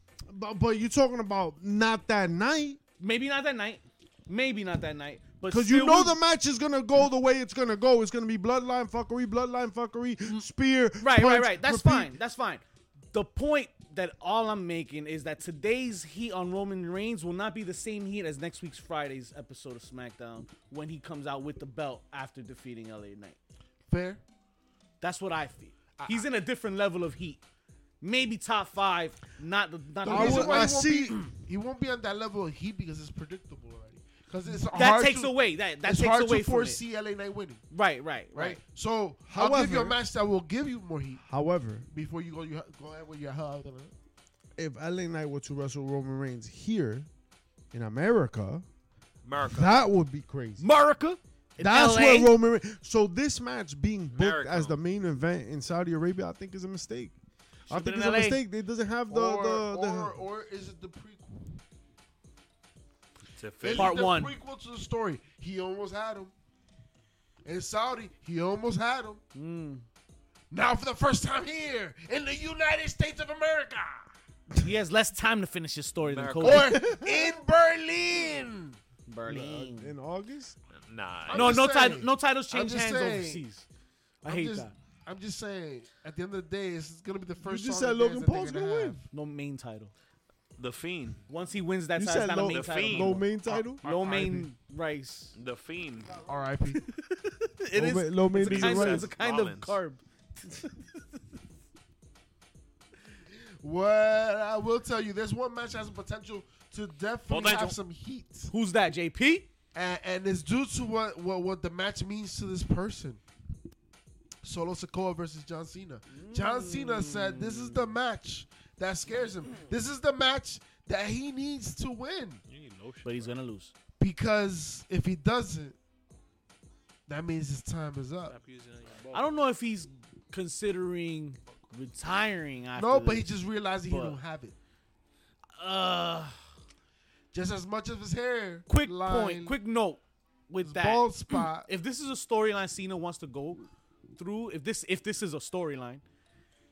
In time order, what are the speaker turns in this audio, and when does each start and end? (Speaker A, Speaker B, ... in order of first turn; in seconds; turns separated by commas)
Speaker A: 0.3-2.8, Speaker B: 3.0-6.2, Speaker A: 5.5-12.2, Speaker B: 11.0-23.4, Speaker C: 23.9-24.2, Speaker B: 25.0-27.4, Speaker C: 26.0-26.3, Speaker B: 28.0-30.8, Speaker C: 30.0-37.6, Speaker A: 30.1-31.3, Speaker B: 34.7-36.8, Speaker B: 37.7-38.6, Speaker C: 38.3-41.2, Speaker A: 39.3-40.0, Speaker A: 41.2-41.9, Speaker C: 41.9-43.9, Speaker A: 44.6-47.1, Speaker A: 47.7-48.6, Speaker D: 49.2-49.8, Speaker A: 49.4-50.6, Speaker B: 50.6-52.3, Speaker A: 51.6-57.1, Speaker D: 54.1-54.8, Speaker B: 57.7-58.4, Speaker A: 57.7-60.2, Speaker C: 59.1-61.6, Speaker D: 63.4-64.0, Speaker C: 63.6-66.3, Speaker B: 63.7-64.3, Speaker C: 67.5-69.2, Speaker B: 69.3-69.9, Speaker C: 70.5-74.1, Speaker B: 74.6-76.8, Speaker D: 76.0-76.8, Speaker C: 76.4-78.8, Speaker A: 76.8-77.3, Speaker B: 79.1-80.0, Speaker A: 79.3-80.6, Speaker D: 80.7-81.6, Speaker C: 81.3-83.4, Speaker B: 81.3-83.7, Speaker B: 84.2-84.7, Speaker C: 84.2-89.1, Speaker A: 87.4-89.0, Speaker B: 89.1-89.9, Speaker D: 90.6-91.2, Speaker B: 91.3-95.3, Speaker A: 92.0-93.8, Speaker D: 92.5-93.2, Speaker C: 93.5-94.5, Speaker D: 95.3-96.2, Speaker C: 96.2-96.8, Speaker B: 96.8-101.0, Speaker A: 97.7-99.1, Speaker D: 98.4-99.8, Speaker C: 103.6-108.5, Speaker D: 107.3-107.8, Speaker B: 108.5-109.5, Speaker C: 109.7-113.2, Speaker C: 114.4-122.4, Speaker B: 116.1-117.9, Speaker D: 122.5-123.4, Speaker B: 123.0-123.7, Speaker C: 124.0-125.8, Speaker C: 127.1-128.4, Speaker D: 128.3-129.4, Speaker B: 129.1-133.3, Speaker C: 132.8-134.6, Speaker B: 133.9-134.2, Speaker B: 135.6-136.4, Speaker C: 137.3-139.6, Speaker B: 138.7-143.6, Speaker C: 140.6-141.7, Speaker B: 144.2-146.0